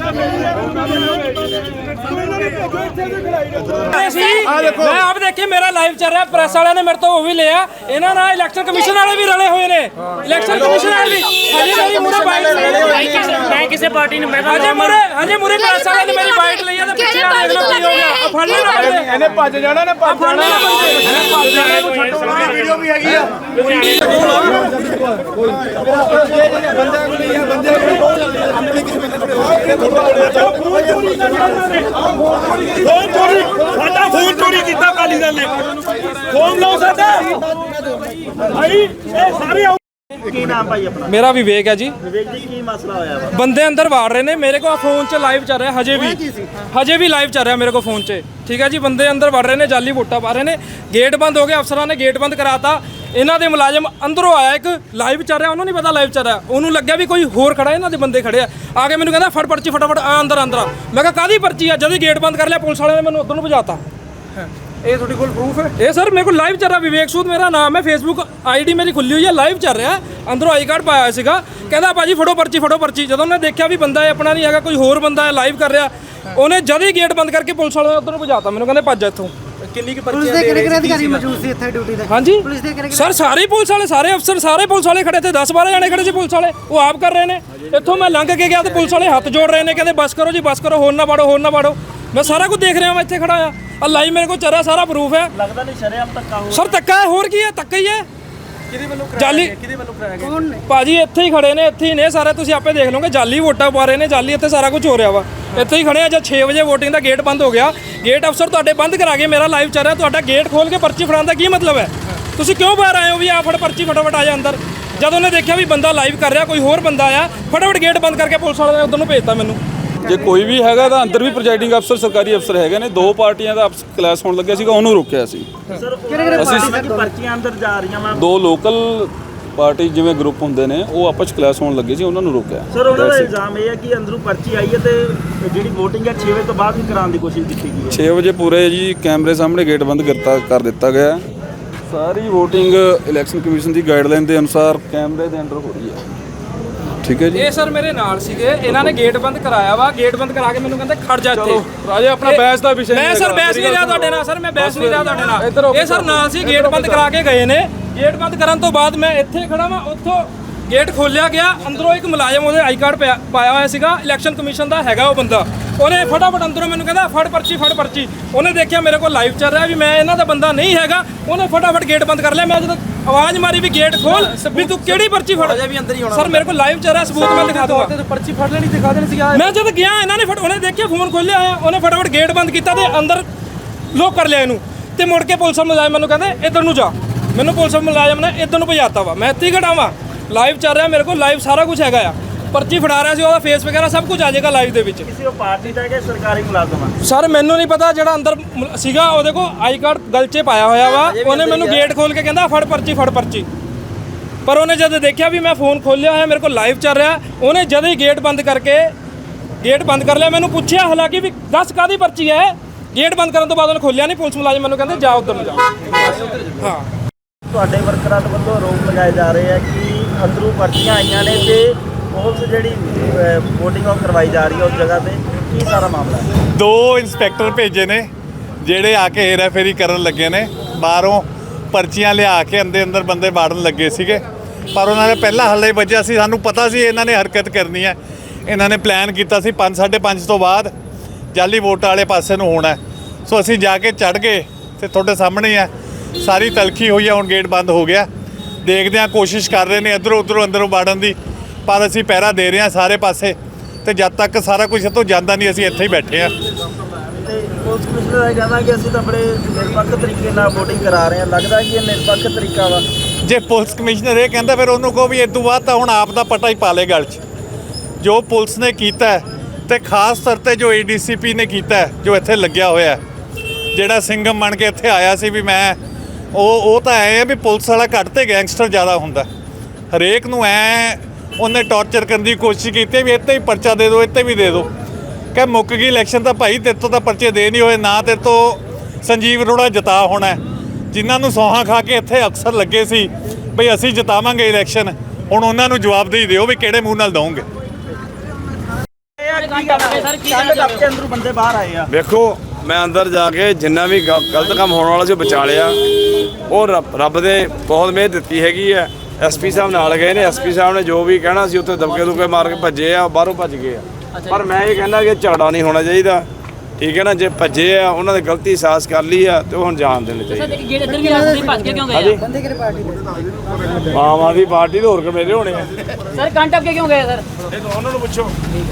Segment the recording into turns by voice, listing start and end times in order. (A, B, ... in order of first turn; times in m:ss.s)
0:00.6-0:01.2 A
0:03.7-0:13.6 A
0:12.2-0:14.0 B
0:13.1-0:14.9 C
0:14.3-0:22.6 A
0:19.3-0:19.9 D
0:23.6-0:24.5 A
0:30.2-0:31.8 A
0:32.8-0:35.5 A
0:36.3-0:37.2 A
0:39.1-0:41.1 B
0:41.1-0:41.9 A
0:42.0-0:43.3 B
0:43.3-1:03.8 A
1:04.8-1:05.6 D
1:05.6-1:19.3 A
1:19.7-1:21.5 D
1:20.1-1:23.0 E
1:22.0-1:35.3 A
1:35.3-1:36.7 B
1:36.5-1:38.0 A
1:38.7-1:40.4 D
1:39.1-1:39.6 A
1:40.7-1:59.6 A
2:00.0-2:05.5 F
2:05.7-2:08.3 B
2:06.1-2:06.9 E
2:06.3-2:06.7 F
2:08.1-2:13.3 F
2:12.7-2:18.0 B
2:17.9-2:21.2 F
2:21.9-2:26.0 F
2:27.0-2:27.4 F
2:27.3-2:31.7 A
2:31.3-2:34.1 F
2:32.2-2:57.9 A
2:34.6-2:37.0 F
2:54.2-2:54.8 D
2:55.6-2:56.4 D
2:57.3-2:59.4 D
2:59.3-3:03.2 A
3:03.9-3:15.1 A
3:15.0-3:16.9 B
3:17.0-3:23.5 A
3:20.9-3:21.9 B
3:24.4-3:28.9 A
3:29.6-3:36.8 A
3:37.5-3:46.3 B
3:46.4-3:48.1 G
3:48.6-4:00.7 G
4:01.3-4:08.1 G
4:08.6-4:16.3 G
4:17.2-4:22.8 B
4:23.2-4:27.2 G
4:28.0-4:33.0 G
4:33.7-4:35.8 G
4:36.3-4:39.3 G
4:39.9-4:44.7 G
4:45.3-4:50.4 G
4:50.9-4:57.4 G
4:59.2-5:01.9 B
4:59.4-5:00.7 C
5:01.9-5:05.8 H
5:06.5-5:16.3 H
5:16.8-5:20.7 H
5:20.4-5:22.1 C
5:21.8-5:22.2 H
5:22.4-5:22.8 E
5:23.9-5:26.0 H
5:26.2-5:27.2 C
5:27.5-5:28.3 H